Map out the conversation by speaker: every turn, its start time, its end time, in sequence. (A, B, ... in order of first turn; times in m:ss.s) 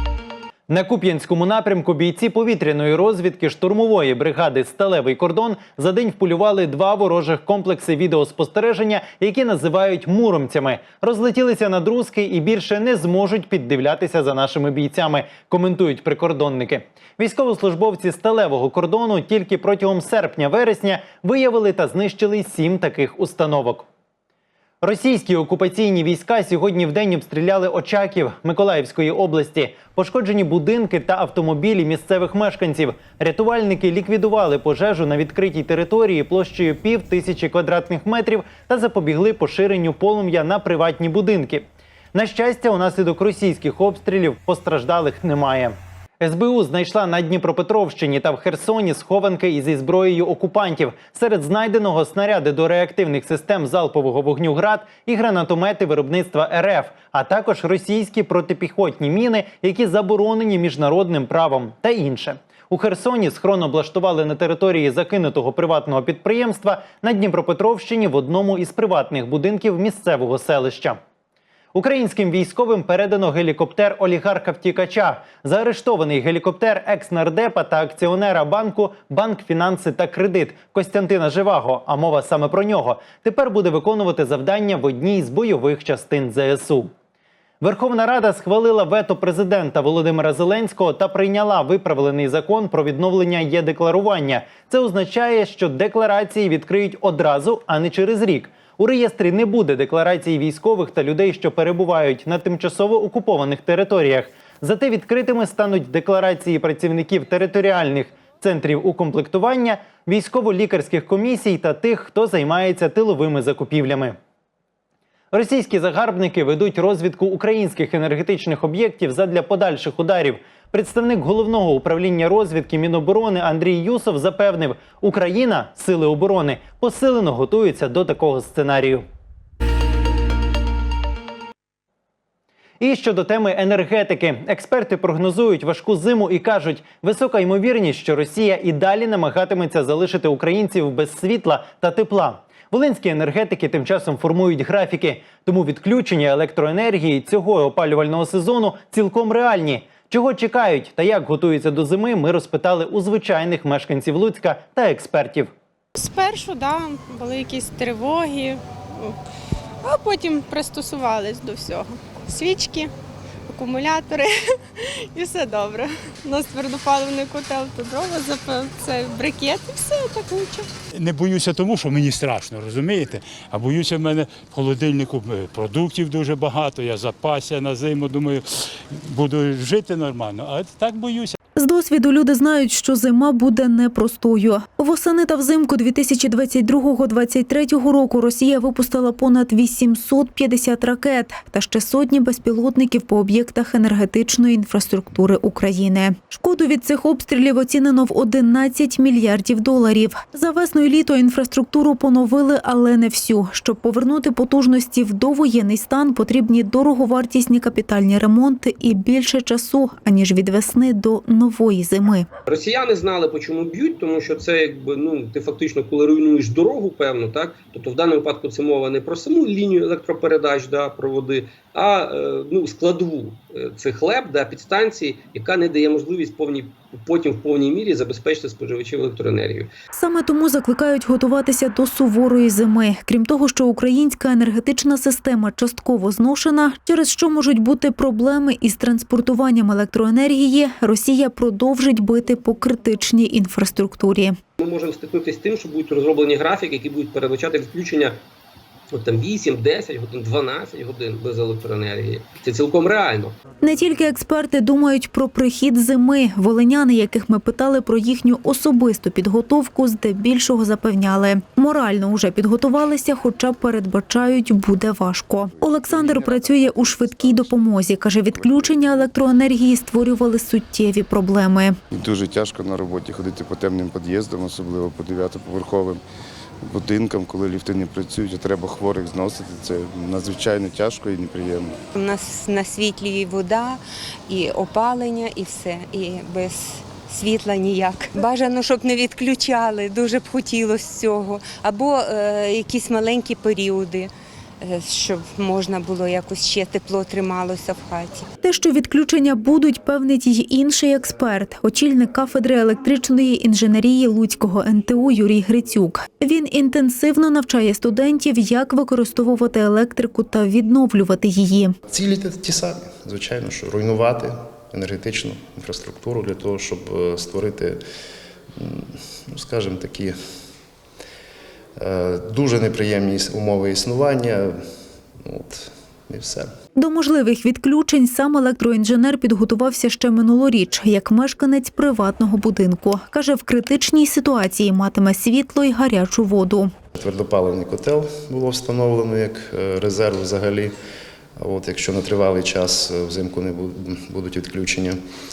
0:00.7-0:23.9 A
0:24.8-1:11.0 A
1:11.7-1:26.9 A
1:27.6-1:54.2 A
1:55.3-2:09.0 A
2:12.8-2:35.5 A
2:36.0-2:39.2 B
2:39.8-2:42.9 B
2:43.5-2:50.7 B
2:51.0-2:58.4 C
2:59.1-3:01.4 C
3:01.6-3:32.3 D
3:32.5-3:49.7 E
3:49.9-4:04.4 D
4:04.6-4:08.2 E
4:08.9-4:13.4 E
4:13.6-4:31.8 D
4:25.6-4:27.6 F
4:28.3-4:29.1 F
4:31.9-4:36.0 F
4:36.7-4:41.8 F
4:41.9-4:58.3 G
4:58.4-5:11.8 D
5:11.9-5:17.8 H
5:18.6-5:20.2 H
5:21.8-5:24.6 H
5:25.2-5:26.5 H
5:26.8-5:36.7 D
5:37.0-5:40.7 H
5:41.4-5:45.0 H